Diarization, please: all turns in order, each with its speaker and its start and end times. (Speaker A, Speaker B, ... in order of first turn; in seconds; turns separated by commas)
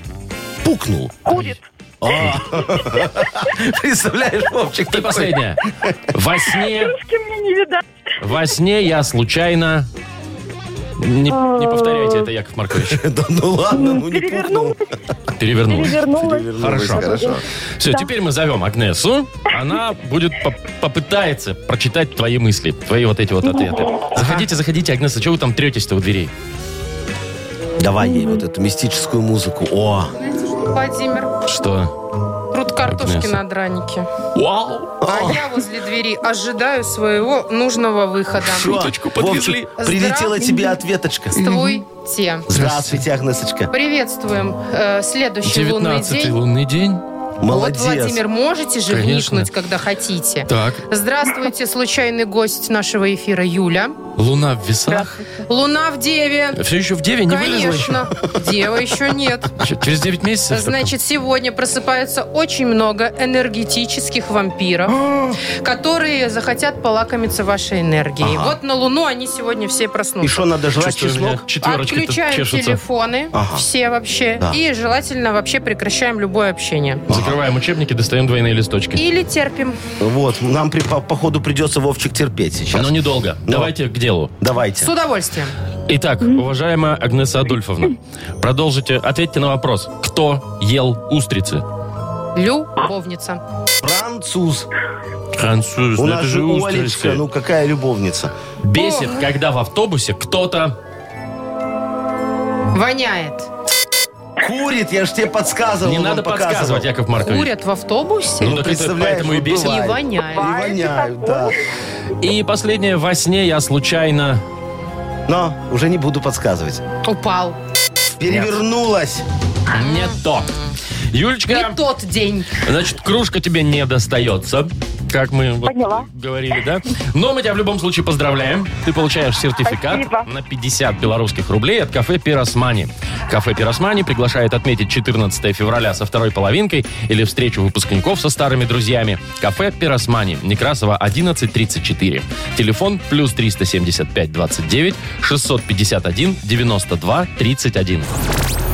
Speaker A: 0.6-6.0, Speaker B: 1.2-1.6, Speaker C: 4.9-7.0, Speaker B: 6.7-7.8, Speaker C: 8.2-9.9, Speaker C: 11.0-13.0, Speaker B: 11.3-12.3, Speaker A: 12.7-14.8, Speaker B: 13.7-14.8, Speaker C: 15.3-16.0, Speaker B: 15.7-18.1, Speaker A: 15.8-17.4, Speaker C: 16.6-26.3, Speaker B: 23.4-24.0, Speaker A: 24.1-24.5, Speaker A: 27.8-30.1, Speaker B: 28.1-28.4, Speaker D: 30.2-31.3, Speaker C: 31.4-31.9, Speaker D: 32.5-34.1, Speaker C: 32.8-33.4, Speaker C: 34.3-35.0, Speaker A: 35.0-35.5, Speaker D: 35.0-38.7, Speaker C: 38.4-39.7, Speaker A: 38.4-41.4, Speaker D: 39.8-40.7, Speaker D: 41.3-42.5, Speaker A: 42.5-43.7, Speaker C: 42.5-43.0, Speaker D: 43.7-46.3, Speaker C: 45.4-47.0, Speaker A: 47.4-48.2, Speaker D: 47.5-54.0, Speaker C: 48.9-49.5, Speaker C: 50.5-50.8, Speaker C: 54.1-55.1, Speaker D: 55.5-56.6, Speaker C: 56.5-58.1, Speaker D: 57.2-59.6, Speaker C: 59.6-60.9, Speaker D: 60.5-70.5, Speaker A: 64.9-65.4, Speaker A: 68.2-68.6, Speaker A: 70.2-71.4, Speaker C: 70.7-72.8, Speaker D: 71.6-77.0, Speaker A: 73.3-73.6, Speaker A: 77.1-77.4, Speaker C: 77.1-79.0, Speaker D: 79.0-79.8, Speaker A: 80.0-83.0, Speaker C: 82.7-84.3, Speaker A: 83.5-83.7, Speaker A: 84.4-84.9, Speaker D: 84.8-85.5, Speaker C: 85.9-91.6, Speaker D: 92.3-93.4, Speaker A: 93.8-94.7, Speaker C: 95.3-97.2, Speaker A: 96.0-98.3, Speaker C: 98.6-100.7, Speaker D: 98.7-99.1, Speaker D: 102.7-103.5, Speaker A: 104.4-106.9, Speaker C: 105.8-107.5, Speaker D: 107.2-108.6, Speaker C: 108.4-109.8, Speaker A: 108.4-111.6, Speaker D: 109.5-110.5, Speaker B: 110.3-111.6, Speaker C: 112.2-114.4, Speaker A: 115.3-116.8, Speaker D: 117.0-117.6, Speaker A: 118.2-119.2, Speaker C: 118.3-118.5, Speaker C: 119.7-120.5, Speaker D: 119.7-120.7, Speaker C: 121.1-121.8, Speaker D: 121.5-122.6, Speaker C: 122.6-148.1, Speaker B: 125.6-126.1, Speaker B: 129.6-130.3